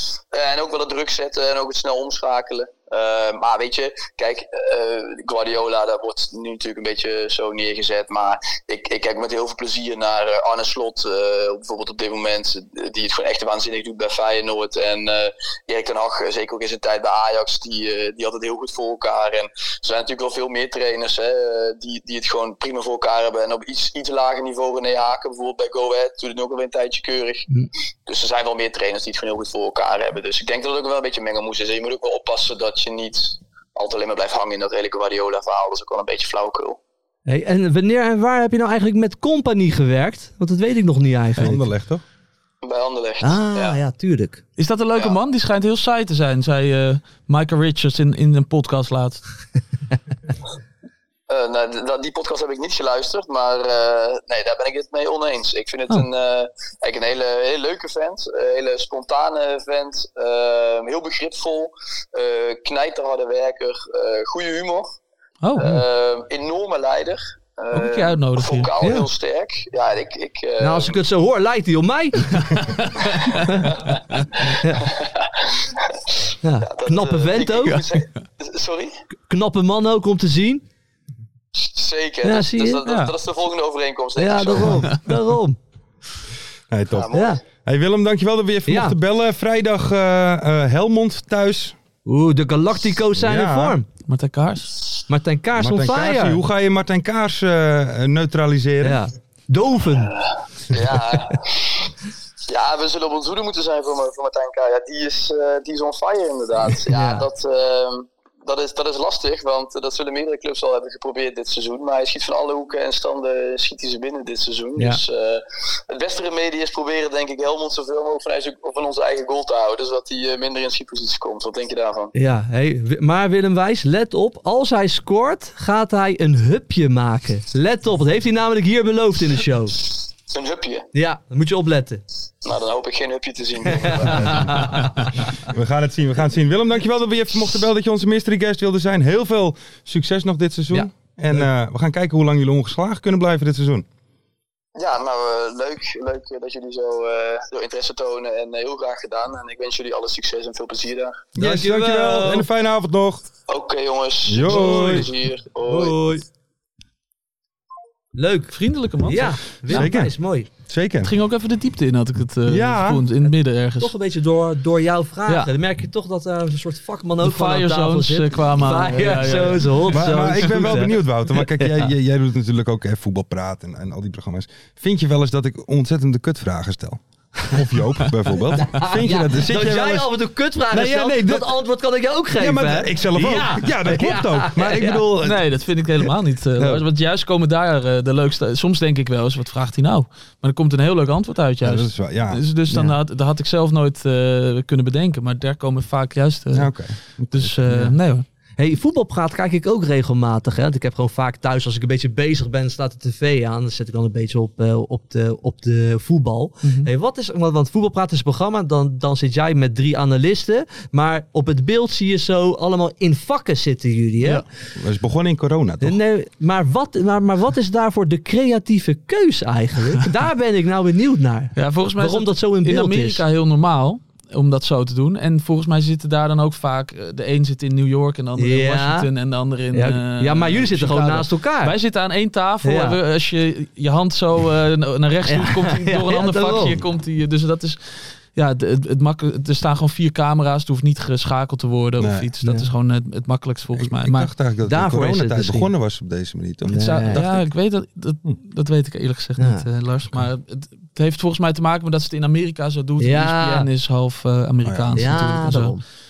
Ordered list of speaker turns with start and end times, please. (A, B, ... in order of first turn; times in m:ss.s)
0:00.3-0:27.5 A
0:28.1-0:36.8 A
0:37.3-0:41.6 B
0:41.4-0:42.0 C
0:42.6-0:43.8 A
0:43.2-0:44.4 B
0:44.6-0:49.2 D
0:51.3-1:05.0 A
1:05.4-1:05.8 D
1:05.6-1:11.0 A
1:07.7-1:08.8 D
1:08.8-1:09.1 B
1:10.6-1:12.6 B
1:13.4-1:13.7 B
1:13.7-1:14.0 A
1:14.5-1:15.7 A
1:16.4-1:17.8 B
1:16.6-1:19.0 A
1:19.3-1:20.6 B
1:21.6-1:24.9 A
1:22.2-1:22.8 B
1:22.8-1:23.2 D
1:24.2-1:25.6 B
1:26.7-1:31.8 C
1:26.9-1:27.4 A
1:27.1-1:27.4 B
1:28.7-1:29.0 B
1:32.1-1:33.9 B
1:33.2-1:33.8 C
1:34.1-1:34.8 D
1:35.1-1:36.4 B
1:35.6-1:39.0 C
1:38.8-1:40.1 B
1:40.0-1:41.9 A
1:42.5-2:02.1 A
1:46.9-1:47.2 B
1:54.8-1:55.0 B
2:02.1-2:09.8 B
2:10.3-2:10.9 A
2:10.9-2:12.0 B
2:12.4-2:14.7 A
2:13.7-2:14.8 B
2:15.5-2:23.9 C
2:20.7-2:21.4 B
2:24.8-2:31.3 A
2:31.4-2:33.3 C
2:31.4-2:32.5 B
2:33.5-2:36.1 A
2:34.3-2:35.1 C
2:34.5-2:35.0 B
2:35.7-2:36.2 B
2:38.2-2:40.5 B
2:38.5-2:39.9 D
2:39.7-2:41.1 C
2:41.0-2:43.9 D
2:42.5-2:43.1 C
2:43.8-2:51.7 B
2:47.2-2:50.8 D
2:49.9-3:00.1 C
2:58.5-3:05.0 B
3:00.7-3:01.6 C
3:02.4-3:05.5 C
3:05.2-3:16.7 D
3:11.6-3:12.4 C
3:16.5-3:17.5 C
3:17.3-3:18.2 D
3:17.7-3:18.0 B
3:18.6-3:34.4 B
3:26.6-3:26.9 D
3:34.8-3:36.0 C
3:35.8-3:43.2 B
3:41.6-4:04.3 D
3:48.4-3:49.1 B
3:49.7-3:51.8 B
3:52.6-3:53.0 B
3:55.3-3:56.8 B
4:02.0-4:02.3 C
4:02.4-4:02.7 B
4:03.8-4:07.2 C
4:04.7-4:05.7 B
4:06.7-4:07.4 B
4:06.8-4:15.8 D
4:09.4-4:09.6 B
4:13.0-4:13.7 B
4:14.6-4:15.2 C
4:15.0-4:15.8 B